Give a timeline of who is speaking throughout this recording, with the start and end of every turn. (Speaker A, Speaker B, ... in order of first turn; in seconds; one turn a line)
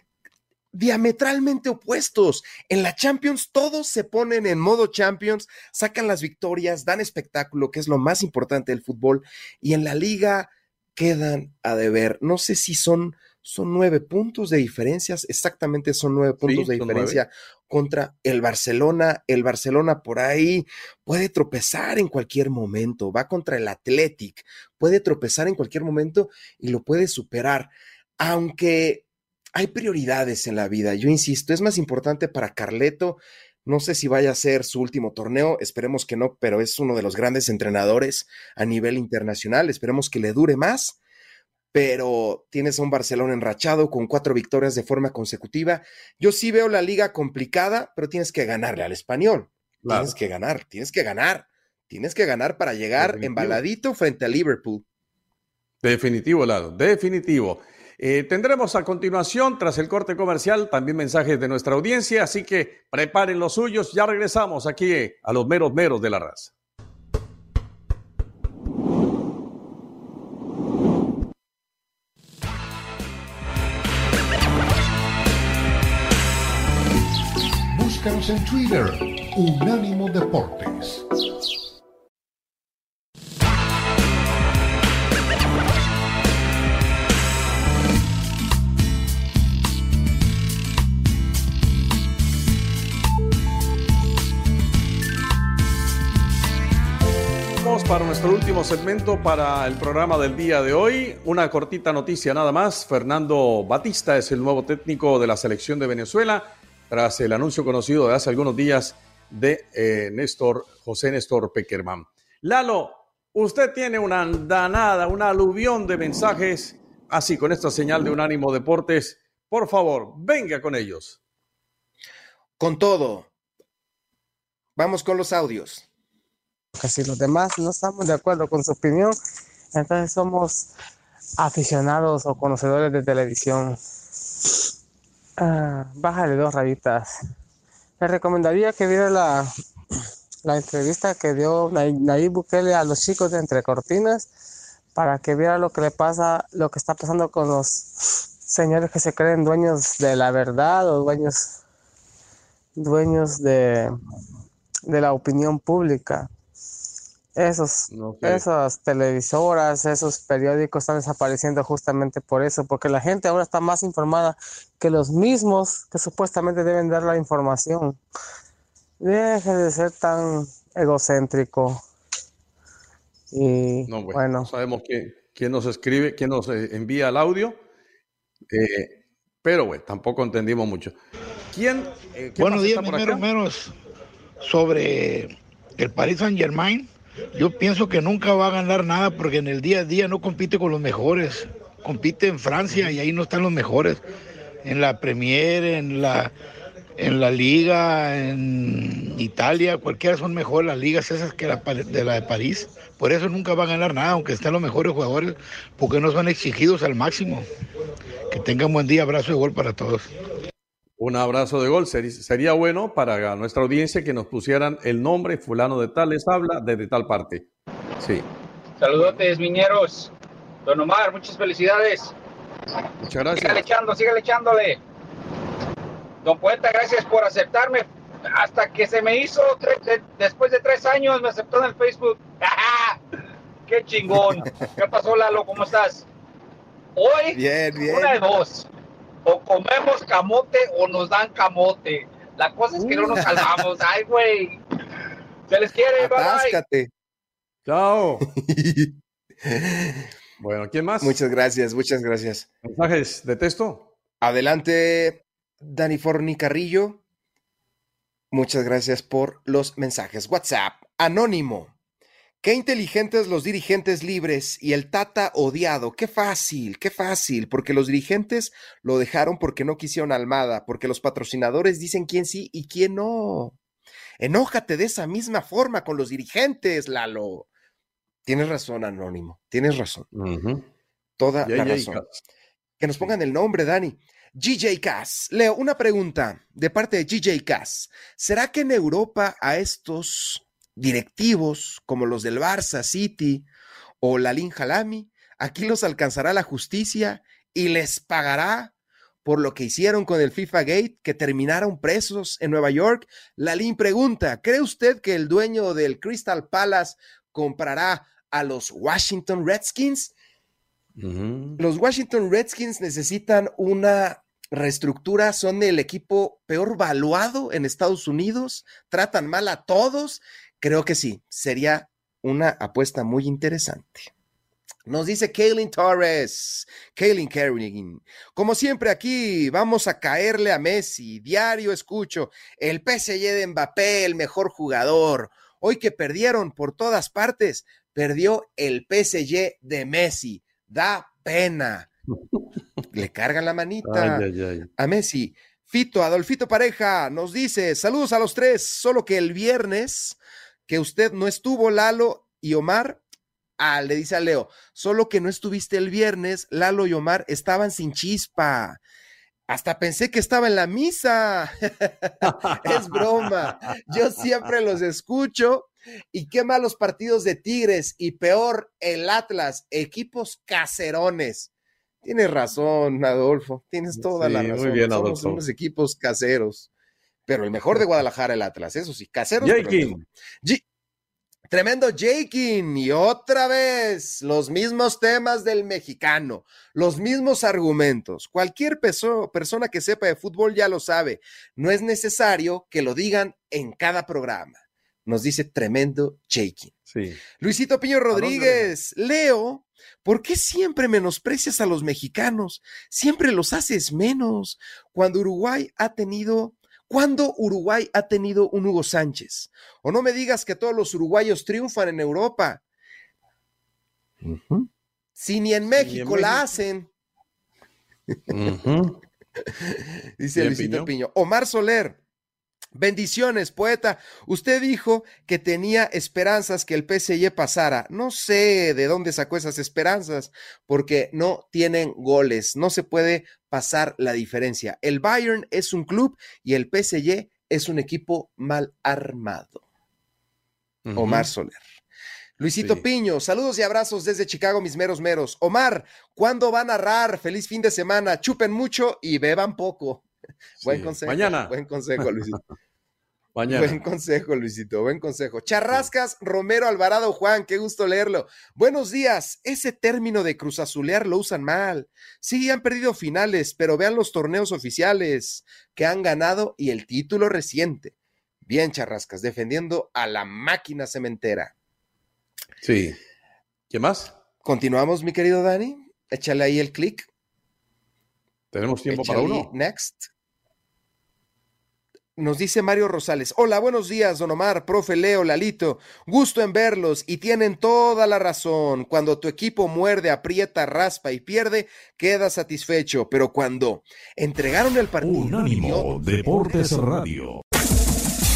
Speaker A: 0.7-41.0
Speaker B: 16.4-17.2
Speaker A: 41.7-54.8
Speaker B: 49.8-50.1
Speaker B: 53.0-53.6
Speaker B: 55.8-66.5
Speaker C: 77.7-81.0
Speaker B: 97.6-121.2
Speaker A: 122.6-123.3
Speaker A: 124.8-125.8
Speaker D: 126.8-129.2
Speaker D: 129.7-130.7
Speaker D: 131.4-133.8
Speaker D: 135.4-137.1
Speaker D: 138.0-139.5
Speaker D: 140.4-144.3
Speaker D: 144.9-147.9
Speaker D: 148.4-151.6
Speaker D: 152.8-153.9
Speaker D: 154.9-156.3
Speaker D: 157.3-168.0
Speaker B: 157.9-158.4
Speaker D: 169.0-171.8
Speaker D: 173.3-174.5
Speaker B: 173.9-177.6
Speaker B: 178.5-180.9
Speaker B: 181.5-183.2
Speaker E: 182.4-183.7
Speaker E: 184.4-194.0
Speaker E: 194.6-196.3
Speaker E: 197.0-207.5
Speaker E: 208.3-210.1
Speaker B: 211.0-217.4
Speaker B: 218.0-218.3
Speaker F: 218.8-220.1
Speaker B: 219.0-219.2
Speaker F: 220.6-222.1
Speaker B: 223.0-223.6
Speaker F: 223.3-224.8
Speaker F: 226.2-233.0
Speaker F: 233.7-236.1
Speaker F: 236.9-238.7
Speaker A: 237.3-238.2
Speaker F: 239.2-244.6
Speaker A: 243.2-243.4
Speaker F: 245.5-246.6
Speaker A: 246.0-246.9
Speaker B: 247.7-248.3
Speaker A: 248.4-250.1
Speaker B: 250.4-251.2
Speaker A: 251.0-252.5
Speaker B: 252.6-253.9
Speaker A: 254.2-257.0
Speaker A: 258.3-261.7
Speaker A: 262.4-273.6
Speaker A: 274.2-277.5
Speaker A: 278.2-280.1
Speaker B: 280.1-280.6
Speaker A: 281.2-282.0
Speaker B: 281.4-282.2
Speaker A: 282.8-293.4
Speaker A: 294.0-298.7
Speaker A: 299.2-310.1
Speaker B: 311.0-311.6
Speaker A: 311.6-324.1
Speaker A: 324.9-341.9
Speaker A: 342.9-344.2
Speaker B: 343.8-344.7
Speaker A: 344.8-353.0
Speaker A: 353.6-358.8
Speaker A: 359.5-371.5
Speaker A: 372.0-376.7
Speaker B: 373.9-375.4
Speaker A: 377.3-380.6
Speaker B: 379.4-380.0
Speaker A: 381.5-396.7
Speaker B: 396.9-397.2
Speaker A: 397.4-412.6
Speaker B: 398.1-398.7
Speaker A: 414.2-416.9
Speaker B: 415.8-416.5
Speaker B: 418.3-418.9
Speaker A: 419.5-422.0
Speaker B: 420.4-420.9
Speaker A: 422.7-439.6
Speaker B: 440.8-441.3
Speaker A: 440.9-441.6
Speaker A: 442.4-450.1
Speaker B: 442.6-442.8
Speaker A: 450.6-452.4
Speaker B: 450.6-452.4
Speaker B: 453.4-453.8
Speaker A: 453.5-467.9
Speaker A: 468.4-471.5
Speaker B: 472.6-473.0
Speaker B: 473.7-474.1
Speaker A: 474.4-477.1
Speaker B: 478.5-479.5
Speaker A: 478.9-480.1
Speaker A: 482.1-496.9
Speaker B: 495.0-497.4